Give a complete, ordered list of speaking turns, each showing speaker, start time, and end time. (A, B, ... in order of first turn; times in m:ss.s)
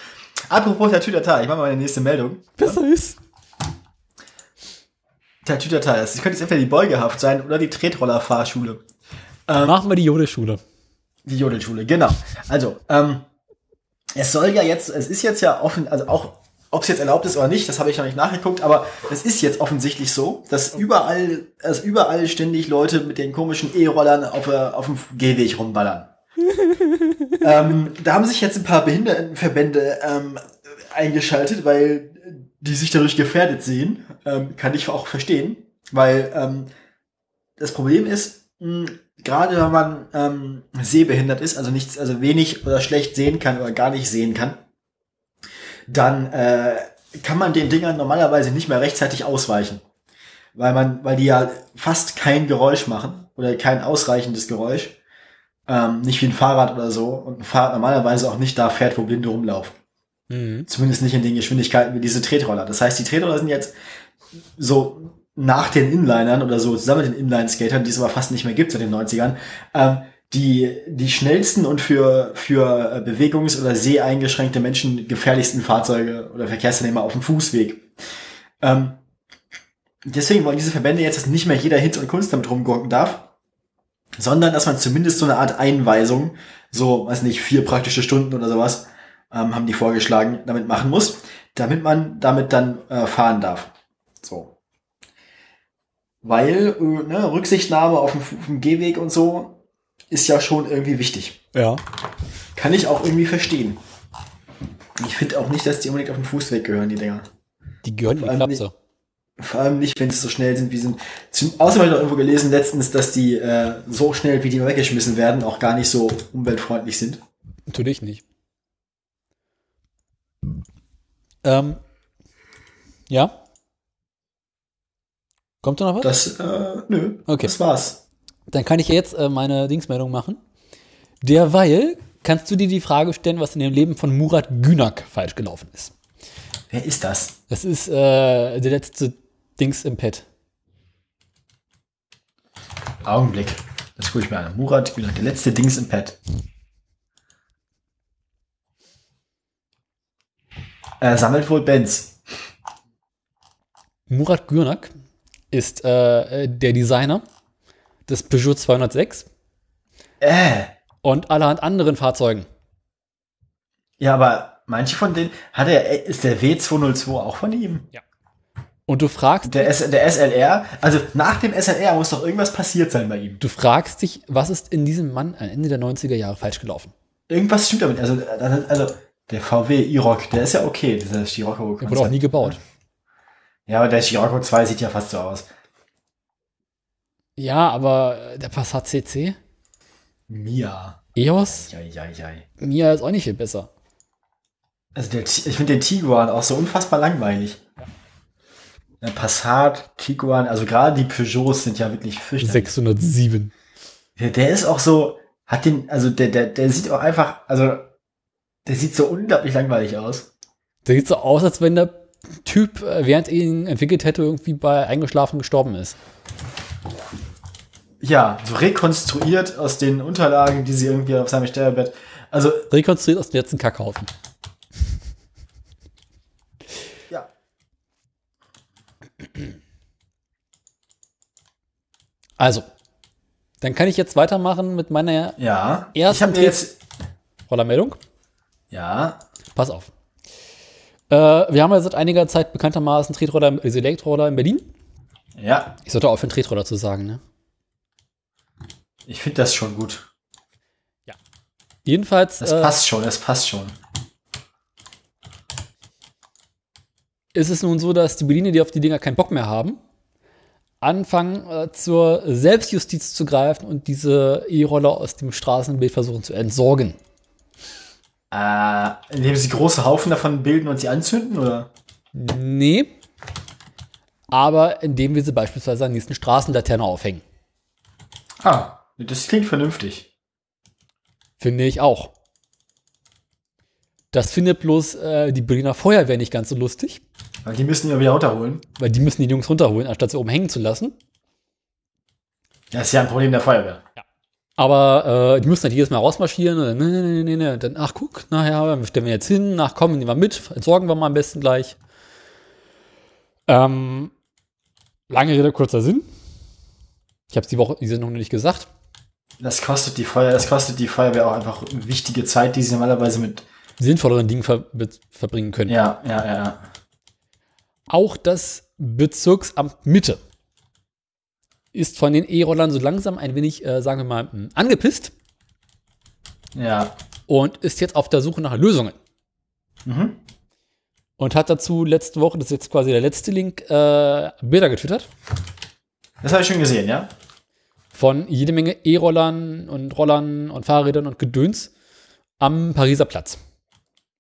0:00.5-0:02.8 A
0:02.6-0:03.2 B
0:05.4-0:08.8 A
0:09.5-0:09.8 A
0:09.6-0:10.6 B
0:11.2-0:13.2 A
0:14.2-0:26.1 A
0:27.4-0:36.7 A
0:37.6-0:44.6 A
0:45.9-0:49.8 A
0:50.5-0:55.0 A
0:55.7-0:59.7 A
1:00.3-1:00.7 B
1:00.7-1:03.7 A
1:04.6-1:17.9 A
1:18.6-1:19.0 A
1:20.0-1:23.3 A
1:24.2-1:34.5 A
1:36.2-1:39.6 A
1:40.1-1:41.4 A
1:41.5-1:41.8 B
1:42.6-1:43.8 A
1:45.0-1:47.3 A
1:47.8-1:48.7 B
1:48.2-1:48.6 A
1:49.4-1:57.2 A
1:57.7-1:58.2 B
2:01.4-2:01.8 B
2:03.1-2:03.3 B
2:05.6-2:06.1 B
2:06.0-2:08.0 A
2:08.5-2:10.4 B
2:11.2-2:15.9 B
2:16.7-2:17.4 A
2:17.5-2:20.2 B
2:23.0-2:26.2 A
2:31.0-2:32.2 A
2:34.1-2:34.9 B
2:35.5-2:37.2 B
2:38.1-2:39.3 B
2:40.2-2:40.7 A
2:41.0-2:42.5 B
2:44.0-2:47.9 A
2:48.9-2:49.7 B
2:49.4-2:53.4 A
2:53.4-2:56.9 B
2:57.3-3:02.6 A
3:01.8-3:02.6 B
3:03.7-3:05.5 A
3:07.4-3:09.4 B
3:10.3-3:12.4 A
3:11.2-3:11.7 B
3:12.6-3:13.7 B
3:14.9-3:17.6 A
3:19.0-3:22.7 A
3:22.4-3:23.5 B
3:24.2-3:27.9 A
3:28.6-3:30.3 A
3:30.8-3:36.0 B
3:38.0-3:42.7 A
3:42.7-3:44.1 B
3:52.4-3:52.7 B
3:53.6-3:55.4 B
3:55.4-3:56.7 A
3:55.9-3:56.6 B
3:57.5-3:58.0 B
3:58.7-3:59.2 A
3:59.5-3:59.9 B
4:01.1-4:04.7 B
4:05.4-4:05.8 A
4:05.8-4:07.2 B
4:09.1-4:10.0 A
4:11.8-4:12.8 B
4:12.4-4:13.8 A
4:17.3-4:19.8 B
4:20.8-4:27.0 B
4:28.3-4:31.7 A
4:32.1-4:32.9 B
4:34.3-4:37.2 B
4:38.4-4:40.0 A
4:41.4-4:42.1 B
4:44.1-4:47.0 B
4:47.4-4:48.6 A
4:48.8-4:51.0 B
4:52.7-4:53.8 A
4:54.6-5:01.8 B
5:03.5-5:04.1 B
5:05.1-5:06.0 B
5:07.3-5:08.7 B
5:09.4-5:13.4 A
5:13.8-5:15.8 B
5:15.7-5:16.6 A
5:17.9-5:20.2 B
5:21.7-5:25.1 B
5:26.5-5:26.9 A
5:27.3-5:29.0 B
5:29.8-5:30.2 A
5:31.2-5:35.1 B
5:36.2-5:37.1 A
5:37.9-5:41.7 B
5:42.4-5:43.4 B